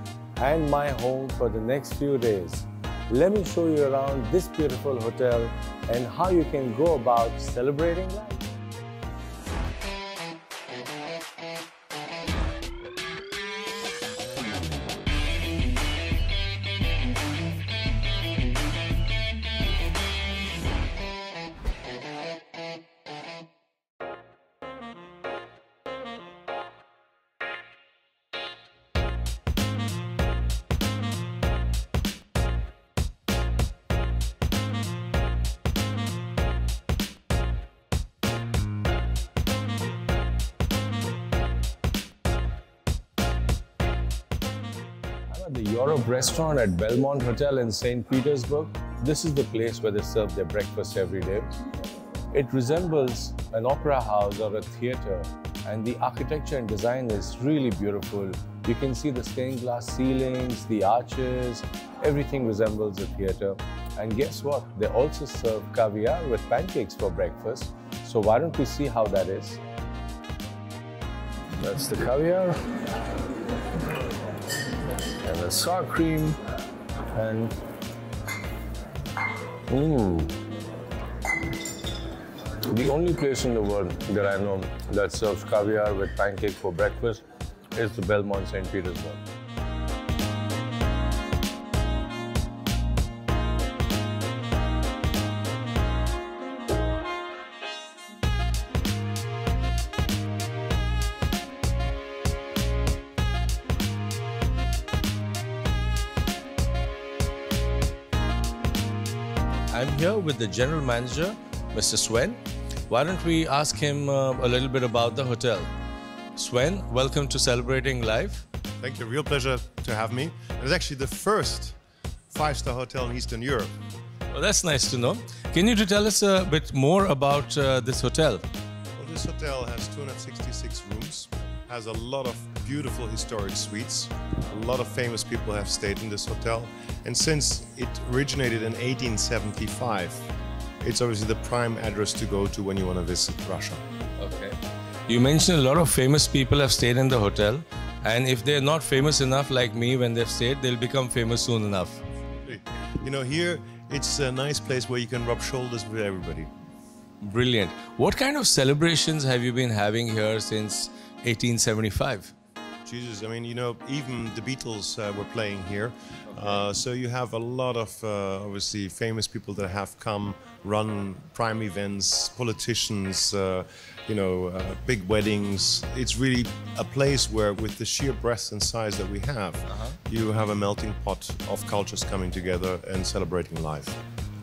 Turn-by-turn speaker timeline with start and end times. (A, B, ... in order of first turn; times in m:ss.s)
0:00.4-0:08.4 A
0:45.3-0:51.5 A
0:52.3-1:09.6 A
1:11.6-1:12.6 A
1:15.2-1:16.4 A
1:17.1-1:17.5 A
1:19.7-1:20.4 A
1:22.6-1:27.2 A
1:27.7-1:29.2 A
1:49.7-1:55.7 A
1:56.4-1:58.4 A
1:58.8-2:01.8 B
2:02.3-2:03.7 B
2:04.3-2:08.4 A
2:09.0-2:20.2 B
2:20.8-2:23.8 B
2:24.2-2:24.6 A
2:25.1-2:32.0 A
2:32.4-2:36.5 B
2:37.2-2:42.3 A
2:42.8-3:04.0 B
2:59.7-3:00.0 A